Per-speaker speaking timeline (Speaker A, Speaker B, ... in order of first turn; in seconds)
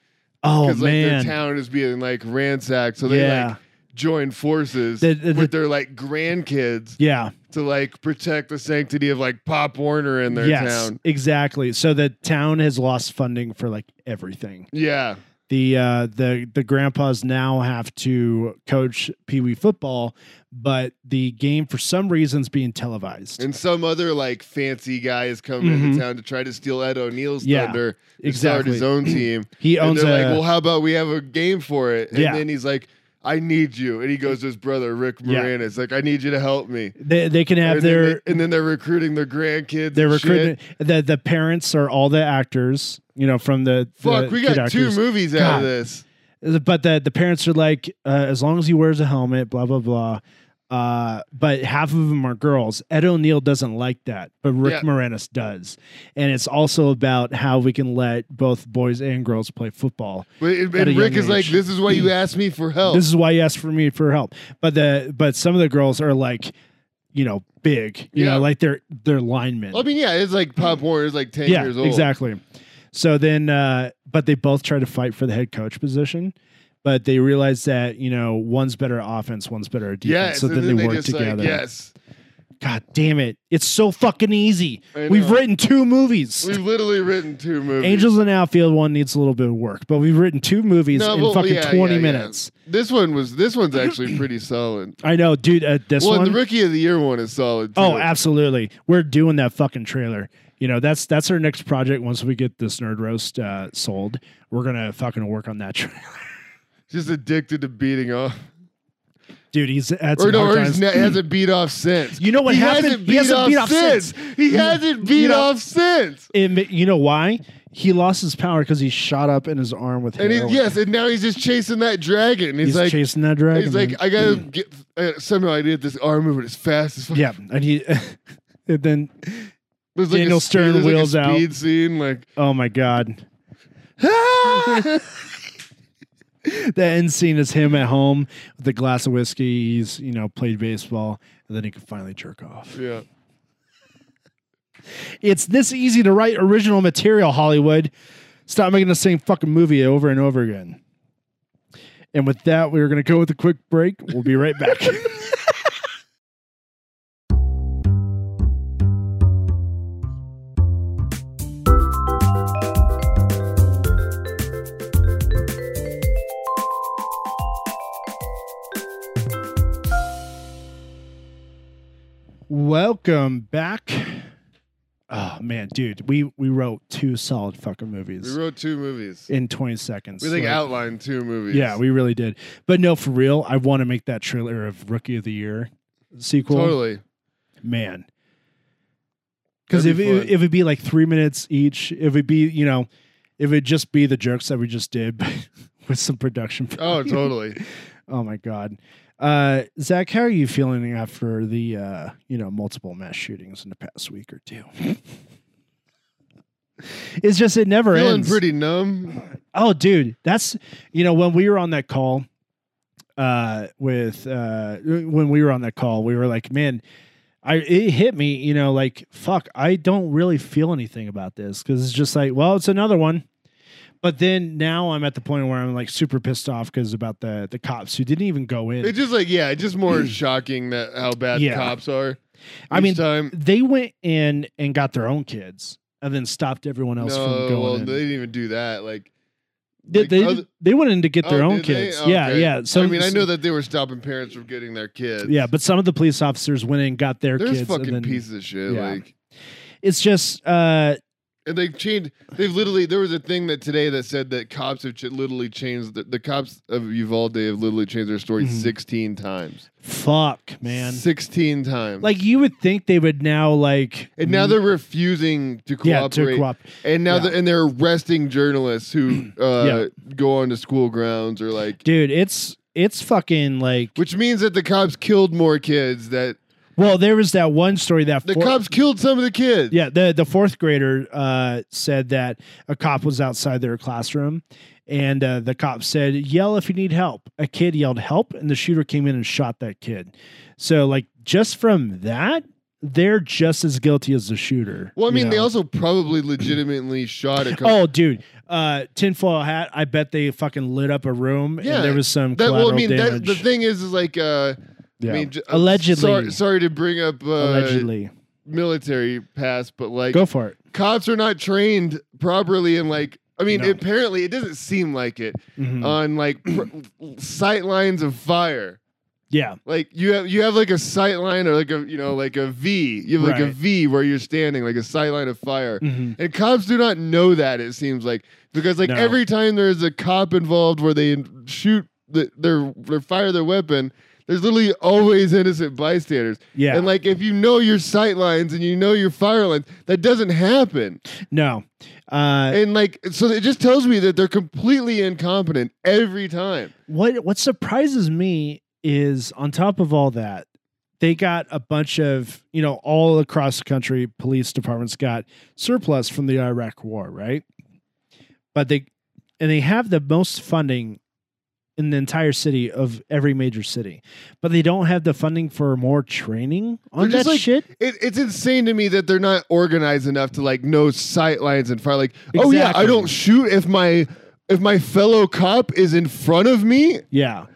Speaker A: 0.4-1.3, 3.0-3.6, 5.0-5.5, 7.0-7.3, 10.3-14.7, 15.5-23.4, 25.6-26.0, 27.4-30.4, 32.1-32.4, 35.2-35.5, 37.0-38.3, 39.9-45.7, 46.4-61.6, 62.9-66.5, 67.1-69.8, 71.4-72.4, 72.9-81.6, 82.6-86.6, 87.8-92.5, 95.0-96.4, 97.8-106.2, 109.5-111.1, 112.2-115.5, 116.3-120.7, 122.6-124.0, 127.1-129.5, 130.1-131.5, 132.4-133.2, 134.0-135.1, 136.4-142.8, 145.2-147.9, 148.5-150.8, 152.1-155.4, 172.5-174.3, 175.1-178.4, 179.3-180.6, 181.5-186.8, 187.6-188.1, 189.7-192.9, 193.4-205.0, 207.2-208.4, 209.2-212.3, 213.2-216.8, 217.4-223.2, 224.0-228.9, 231.3-231.8, 232.7-238.0, 239.9-243.3, 245.2-249.0, 249.8-251.0, 258.4-258.7, 259.8-261.0, 262.0-264.6, 265.8-267.3, 269.6-269.8, 271.8-273.9, 276.8-278.6, 279.7-295.5, 297.6-303.4, 305.0-306.4, 307.4-308.1, 310.1-310.6, 313.5-313.8, 315.6-316.0, 319.3-319.6, 323.2-323.6, 325.8-326.2, 328.8-329.2, 336.5-336.9, 341.3-342.6, 346.9-350.4, 351.0-357.4, 358.5-358.9, 359.4-361.0, 361.8-367.7, 372.3-373.1, 377.1-377.5
Speaker B: 0.6-7.0, 7.5-11.0, 14.7-15.2, 23.4-37.0, 37.6-40.5, 44.0-46.0, 60.4-63.0, 68.1-68.5, 69.7-72.1, 80.0-81.9, 84.9-85.4, 86.4-88.1, 90.9-95.0, 96.0-98.1, 106.9-108.5, 110.2-116.3, 120.2-123.0, 123.5-127.3, 129.9-132.3, 134.5-135.0, 142.7-143.0, 178.2-179.3, 180.2-181.8, 186.5-187.0, 189.7-190.3, 196.8-197.6, 207.9-209.2, 228.8-232.2, 232.7-233.3, 237.0-239.1, 239.8-240.4, 241.2-245.4, 247.4-249.1, 251.4-259.7, 260.7-262.1, 264.2-271.8, 274.0-276.4, 278.2-279.7, 295.0-297.8, 301.6-307.9, 308.4-318.8, 319.6-341.0, 342.5-346.7, 367.0-377.0